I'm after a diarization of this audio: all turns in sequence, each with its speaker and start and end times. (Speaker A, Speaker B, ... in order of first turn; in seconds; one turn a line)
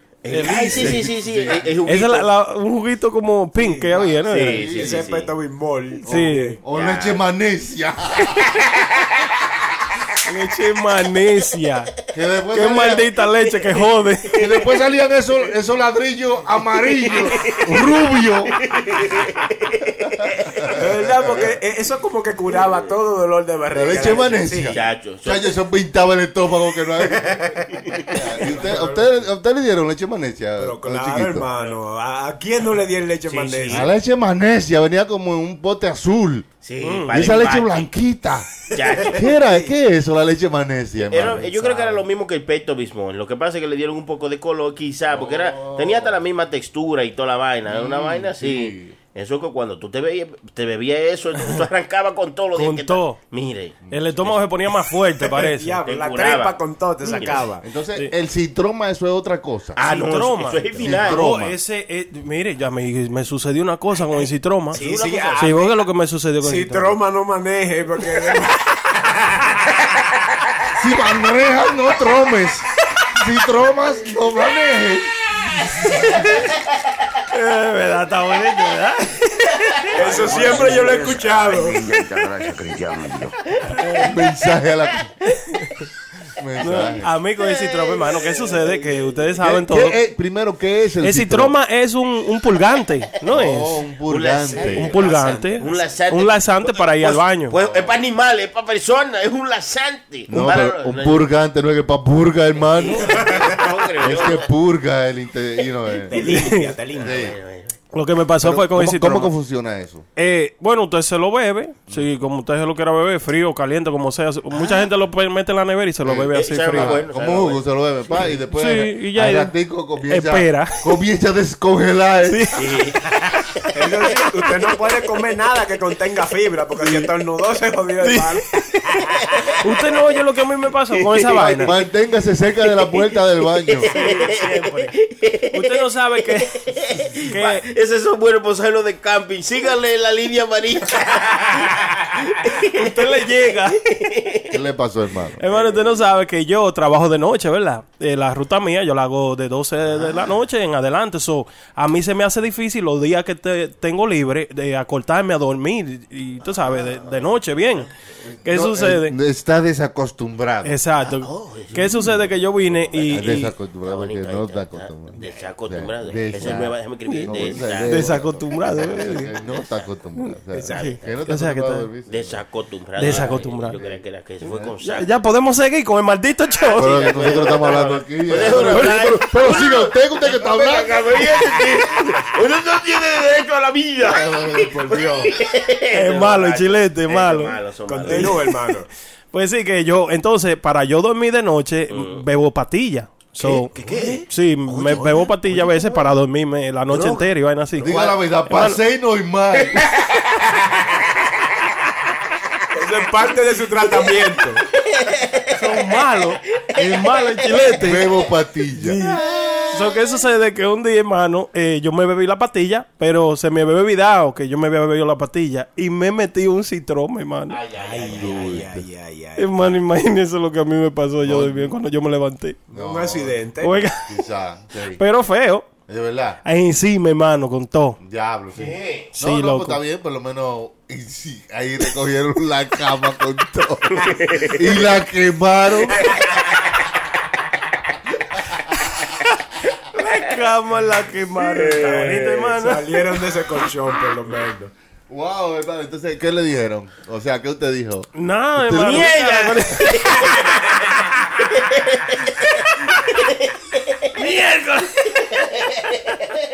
Speaker A: 0.2-2.3
Speaker B: 0.3-1.0
Speaker C: 0.4-1.7
Speaker B: 1.9-4.7
Speaker D: 3.5-6.6
Speaker A: 4.3-5.3
Speaker C: 4.6-5.0
Speaker B: 6.0-6.6
Speaker C: 6.0-8.4
Speaker A: 6.7-7.2
Speaker A: 8.6-9.1
Speaker B: 10.2-11.9
Speaker C: 12.1-13.1
Speaker B: 12.5-14.4
Speaker C: 14.3-18.6
Speaker A: 17.2-17.7
Speaker A: 18.6-20.7
Speaker C: 20.1-21.5
Speaker D: 20.7-24.7
Speaker C: 23.7-31.5
Speaker A: 24.7-25.5
Speaker D: 27.3-27.8
Speaker D: 28.4-29.2
Speaker D: 30.6-33.9
Speaker A: 33.3-33.9
Speaker C: 33.7-36.5
Speaker A: 36.6-37.9
Speaker B: 36.8-37.3
Speaker C: 37.1-42.0
Speaker A: 38.7-39.3
Speaker A: 41.1-53.8
Speaker C: 45.1-46.2
Speaker C: 47.6-49.0
Speaker B: 52.5-53.2
Speaker C: 53.8-54.4
Speaker B: 53.9-55.8
Speaker D: 55.2-57.6
Speaker A: 55.9-56.6
Speaker A: 57.1-57.4
Speaker C: 57.6-59.8
Speaker A: 59.8-61.2
Speaker B: 59.8-64.8
Speaker C: 60.8-61.6
Speaker A: 64.7-65.6
Speaker D: 64.7-65.7
Speaker B: 65.4-67.0
Speaker D: 66.4-69.8
Speaker C: 70.7-75.1
Speaker C: 75.6-76.2
Speaker B: 77.3-80.9
Speaker D: 79.9-81.8
Speaker E: 80.1-83.3
Speaker A: 80.2-80.5
Speaker B: 83.7-84.1
Speaker C: 84.0-85.1
Speaker C: 86.4-87.1
Speaker B: 86.6-90.0
Speaker A: 87.4-89.0
Speaker C: 89.4-91.5
Speaker B: 91.0-93.8
Speaker C: 93.3-94.9
Speaker A: 94.1-101.3
Speaker D: 94.5-95.8
Speaker B: 94.7-97.5
Speaker C: 97.5-98.0
Speaker C: 100.3-103.4
Speaker A: 102.8-104.5
Speaker D: 103.1-103.5
Speaker C: 104.0-106.2
Speaker D: 106.1-107.2
Speaker B: 106.2-106.7
Speaker A: 106.9-107.8
Speaker C: 107.0-107.4
Speaker B: 107.9-109.3
Speaker C: 108.4-110.0
Speaker B: 110.2-117.0
Speaker A: 114.6-114.8
Speaker C: 116.0-122.6
Speaker A: 116.3-117.6
Speaker B: 118.5-119.5
Speaker B: 120.0-120.8
Speaker B: 122.3-122.6
Speaker A: 122.5-123.6
Speaker D: 123.7-129.5
Speaker B: 128.0-128.4
Speaker B: 129.6-131.7
Speaker A: 130.9-131.8
Speaker C: 131.3-133.9
Speaker A: 132.7-143.2
Speaker B: 133.9-134.9
Speaker B: 135.5-136.7
Speaker B: 137.2-137.6
Speaker B: 142.7-143.8
Speaker A: 143.8-144.6
Speaker C: 144.5-145.4
Speaker B: 145.4-157.9
Speaker A: 145.5-146.0
Speaker A: 149.8-150.3
Speaker A: 156.5-157.9
Speaker C: 158.2-160.8
Speaker B: 158.4-159.1
Speaker B: 160.6-163.5
Speaker A: 161.0-169.8
Speaker C: 161.8-162.3
Speaker C: 163.0-172.4
Speaker B: 167.1-169.3
Speaker D: 170.5-170.9
Speaker A: 170.7-171.1
Speaker B: 170.8-171.9
Speaker A: 172.1-175.2
Speaker B: 173.0-173.8
Speaker C: 173.0-174.7
Speaker B: 174.8-177.5
Speaker A: 176.5-188.5
Speaker C: 176.8-181.2
Speaker B: 178.5-179.2
Speaker C: 184.1-185.0
Speaker D: 184.5-185.3
Speaker B: 185.9-188.5
Speaker D: 187.9-188.9
Speaker B: 189.3-193.7
Speaker A: 191.9-192.2
Speaker D: 193.4-196.0
Speaker A: 193.8-194.2
Speaker B: 194.3-198.8
Speaker A: 196.9-197.2
Speaker C: 197.8-199.9
Speaker D: 197.8-198.2
Speaker A: 199.7-200.3
Speaker D: 202.7-204.6
Speaker A: 204.8-205.5
Speaker B: 205.5-208.1
Speaker A: 206.6-207.7
Speaker C: 207.8-209.0
Speaker B: 208.8-217.6
Speaker A: 209.0-210.1
Speaker A: 217.5-218.7
Speaker D: 217.7-219.5
Speaker C: 218.1-218.8
Speaker B: 219.4-222.6
Speaker C: 221.2-221.7
Speaker C: 222.7-223.4
Speaker D: 222.7-223.9
Speaker B: 223.6-224.1
Speaker C: 224.0-225.0
Speaker B: 225.0-225.7
Speaker C: 225.9-226.4
Speaker B: 226.4-228.0
Speaker C: 228.0-236.1
Speaker A: 228.5-229.1
Speaker B: 229.2-229.8
Speaker A: 233.9-234.9
Speaker A: 236.1-236.4
Speaker B: 239.9-242.9
Speaker A: 241.4-242.4
Speaker D: 242.0-244.7
Speaker C: 245.1-249.1
Speaker B: 248.2-250.6
Speaker A: 248.8-250.7
Speaker A: 251.4-252.3
Speaker B: 254.2-255.3
Speaker A: 255.6-256.1